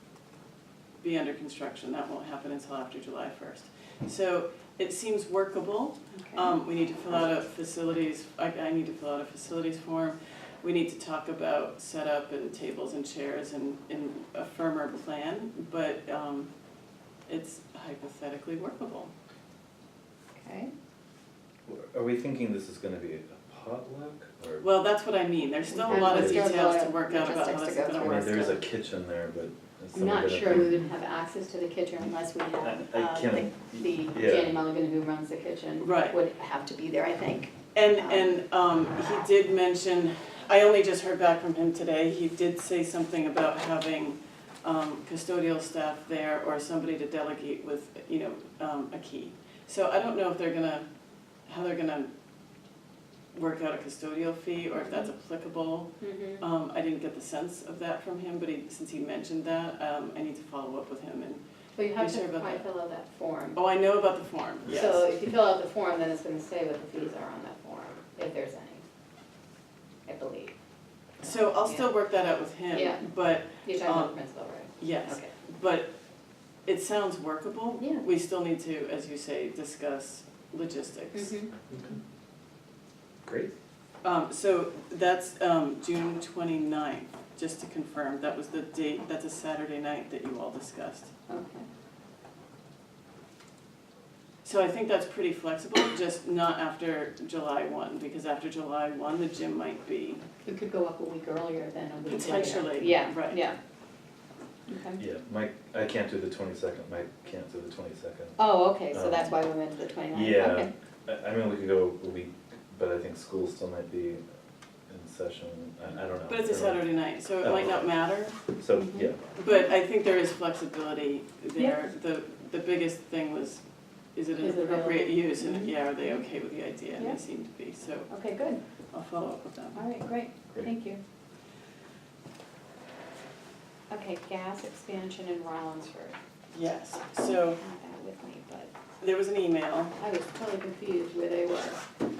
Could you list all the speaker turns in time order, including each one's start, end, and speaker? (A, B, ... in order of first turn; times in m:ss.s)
0:01.0-0:16.5 A
0:06.1-0:06.6 B
0:17.3-0:19.1 A
0:20.4-0:20.7 B
0:21.7-0:24.7 C
0:24.6-0:28.6 A
0:25.7-0:28.4 B
0:25.9-0:26.6 C
0:28.0-0:30.8 C
0:29.9-0:38.3 B
0:32.6-0:34.6 C
0:35.8-0:36.2 A
0:37.7-0:50.8 A
0:51.5-0:52.1 A
0:53.3-1:01.4 A
0:54.8-0:55.1 B
0:56.0-0:56.4 B
1:01.7-1:03.6 B
1:01.9-1:02.7 A
1:03.5-1:04.9 A
1:04.7-1:05.0 C
1:04.7-1:08.8 B
1:10.0-1:10.5 B
1:11.2-1:11.9 B
1:11.2-1:14.1 A
1:12.7-1:13.0 B
1:13.5-1:15.3 B
1:14.8-1:15.9 A
1:16.6-1:21.4 A
1:17.8-1:18.0 B
1:21.1-1:21.5 B
1:23.2-1:23.5 C
1:24.0-1:31.1 A
1:31.3-1:31.6 B
1:34.4-1:40.3 A
1:40.4-1:43.6 B
1:42.0-1:43.4 A
1:44.7-1:45.0 B
1:45.0-1:49.3 C
1:48.4-1:50.7 B
1:50.1-1:54.2 C
1:54.9-1:57.9 C
1:56.3-1:58.4 A
1:58.5-1:59.2 C
1:58.8-1:59.6 B
1:59.3-2:03.6 A
2:04.1-2:08.3 A
2:04.4-2:06.2 B
2:08.1-2:08.6 B
2:08.9-2:09.8 A
2:09.7-2:11.0 B
2:13.9-2:16.2 B
2:16.5-2:17.6 A
2:17.6-2:18.7 B
2:19.0-2:20.0 A
2:20.0-2:21.8 B